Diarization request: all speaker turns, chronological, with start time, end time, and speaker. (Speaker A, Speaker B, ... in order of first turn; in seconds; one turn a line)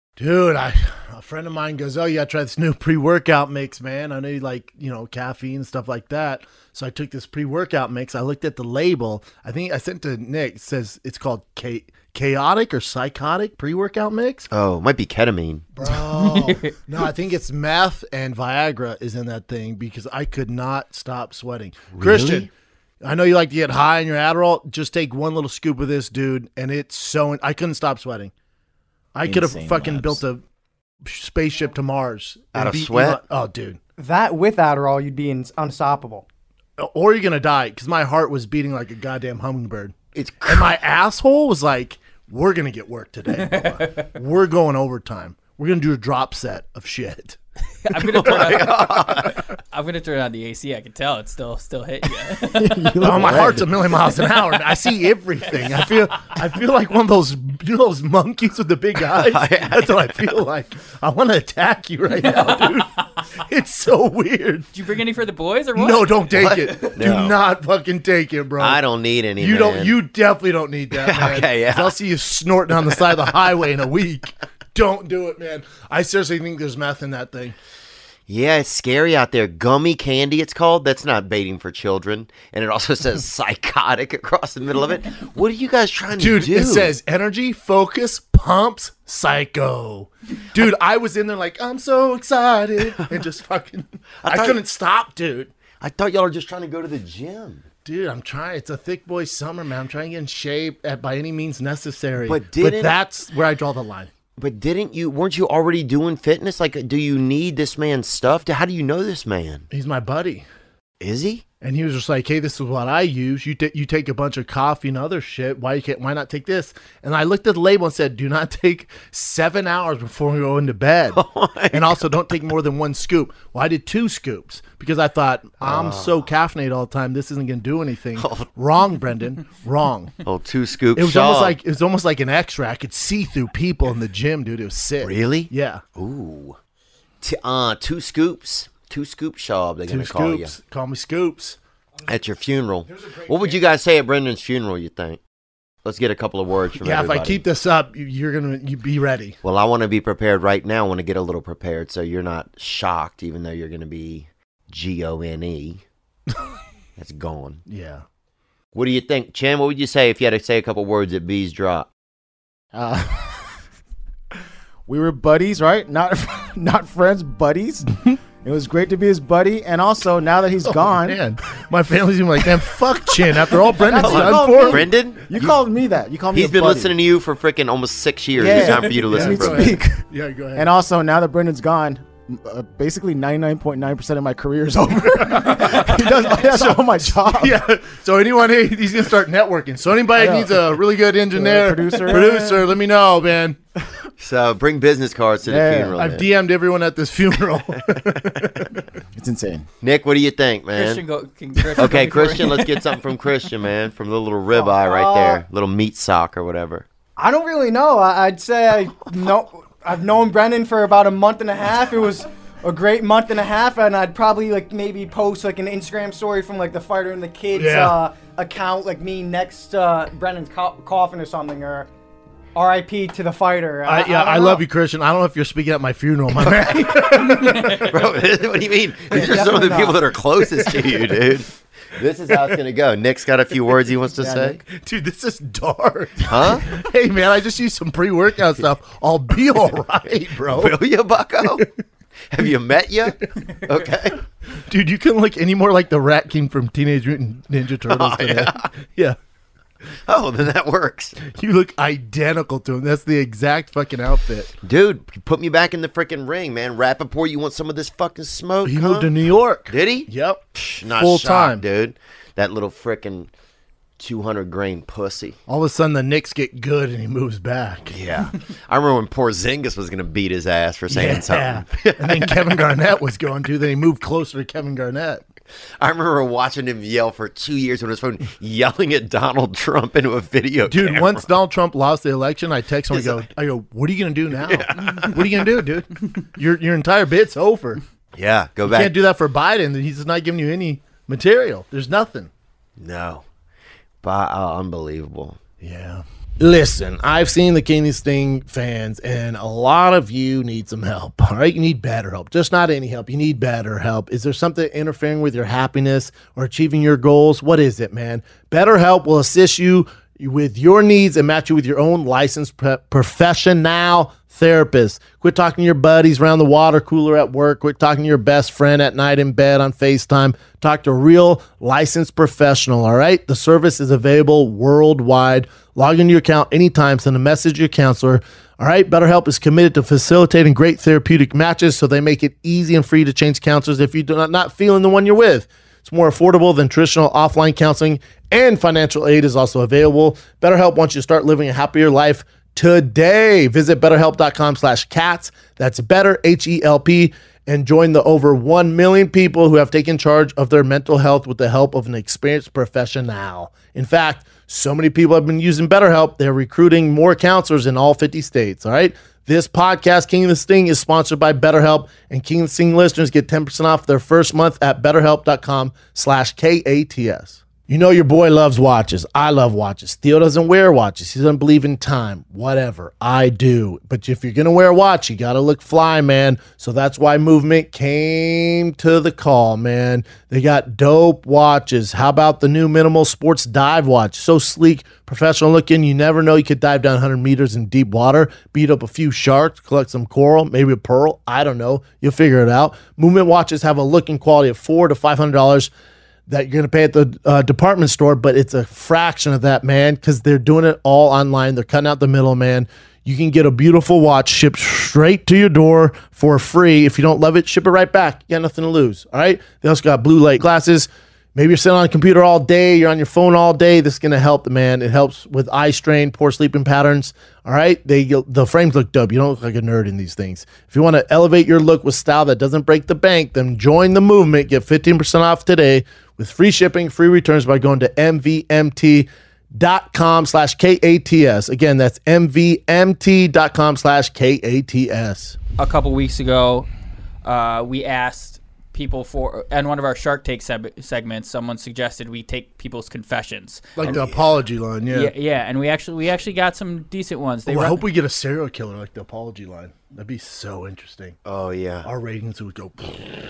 Speaker A: 0.2-14.5
Speaker B: 14.5-15.7
Speaker A: 15.8-22.5
Speaker C: 16.1-16.7
Speaker B: 21.9-22.5
Speaker A: 23.0-28.3
Speaker A: 29.1-30.4
Speaker D: 29.2-30.2
Speaker A: 31.0-33.8
Speaker B: 32.5-33.2
Speaker E: 34.0-36.3
Speaker A: 36.8-40.0
Speaker B: 40.1-40.7
Speaker A: 40.5-47.4
Speaker C: 43.4-44.1
Speaker C: 47.8-53.4
Speaker B: 48.0-49.4
Speaker D: 52.5-53.7
Speaker A: 53.0-64.7
Speaker B: 59.1-60.4
Speaker C: 62.2-62.9
Speaker C: 64.7-66.2
Speaker A: 65.8-68.8
Speaker B: 66.3-67.4
Speaker B: 68.6-70.0
Speaker A: 69.4-77.6
Speaker B: 70.9-72.0
Speaker B: 78.3-86.9
Speaker A: 86.2-95.5
Speaker B: 94.2-94.6
Speaker B: 95.8-97.7
Speaker A: 97.8-104.1
Speaker B: 102.2-103.0
Speaker B: 104.4-109.7
Speaker A: 109.7-110.5
Speaker B: 111.0-111.4
Speaker A: 111.6-121.2
Speaker B: 121.1-122.0
Speaker A: 121.7-130.2
Speaker B: 125.6-126.3
Speaker B: 128.2-128.5
Speaker B: 130.2-131.6
Speaker A: 130.9-135.8
Speaker B: 135.0-136.6
Speaker B: 137.2-140.5
Speaker A: 139.9-141.6
Speaker B: 142.1-145.2
Speaker A: 143.1-143.6
Speaker B: 145.8-147.4
Speaker A: 146.8-149.4
Speaker B: 149.4-155.8
Speaker B: 157.0-157.6
Speaker A: 157.7-158.0
Speaker B: 158.7-161.9
Speaker D: 162.7-163.6
Speaker D: 164.9-171.2
Speaker A: 170.6-174.9
Speaker D: 173.7-177.0
Speaker B: 174.0-175.6
Speaker B: 176.3-179.8
Speaker D: 178.3-180.0
Speaker A: 178.5-180.7
Speaker D: 180.6-187.6
Speaker A: 185.1-193.6
Speaker D: 190.2-190.8
Speaker D: 191.3-192.7
Speaker B: 194.2-196.3
Speaker D: 195.4-196.2
Speaker A: 196.0-198.8
Speaker D: 199.1-199.7
Speaker B: 199.8-201.0
Speaker C: 200.7-202.9
Speaker B: 201.8-206.8
Speaker E: 204.6-205.4
Speaker E: 207.2-221.9
Speaker A: 217.5-218.0
Speaker E: 222.6-224.6
Speaker A: 223.8-227.9
Speaker B: 226.6-234.6
Speaker E: 229.1-230.0
Speaker A: 230.7-231.1
Speaker D: 234.2-234.6
Speaker A: 234.6-240.8
Speaker B: 236.3-236.7
Speaker B: 240.5-241.7
Speaker B: 242.3-244.2
Speaker A: 244.6-249.2
Speaker B: 247.9-248.7
Speaker B: 250.1-251.2
Speaker A: 251.2-254.5
Speaker B: 254.6-259.1
Speaker A: 258.6-261.6
Speaker B: 259.7-263.3
Speaker B: 264.0-265.4
Speaker A: 265.5-268.0
Speaker B: 267.9-272.6
Speaker A: 270.9-275.2
Speaker B: 275.8-281.3
Speaker A: 280.7-287.8
Speaker B: 282.9-283.3
Speaker B: 284.4-285.5
Speaker B: 288.1-289.0
Speaker A: 288.7-292.3
Speaker B: 292.8-293.3
Speaker B: 294.0-295.4
Speaker A: 295.6-395.7
Speaker A: 396.3-435.4
Speaker C: 435.6-436.7
Speaker C: 437.2-444.0
Speaker A: 443.8-445.1
Speaker B: 443.8-444.2
Speaker C: 444.9-447.9
Speaker A: 447.5-451.2
Speaker B: 451.3-451.9
Speaker A: 451.8-453.0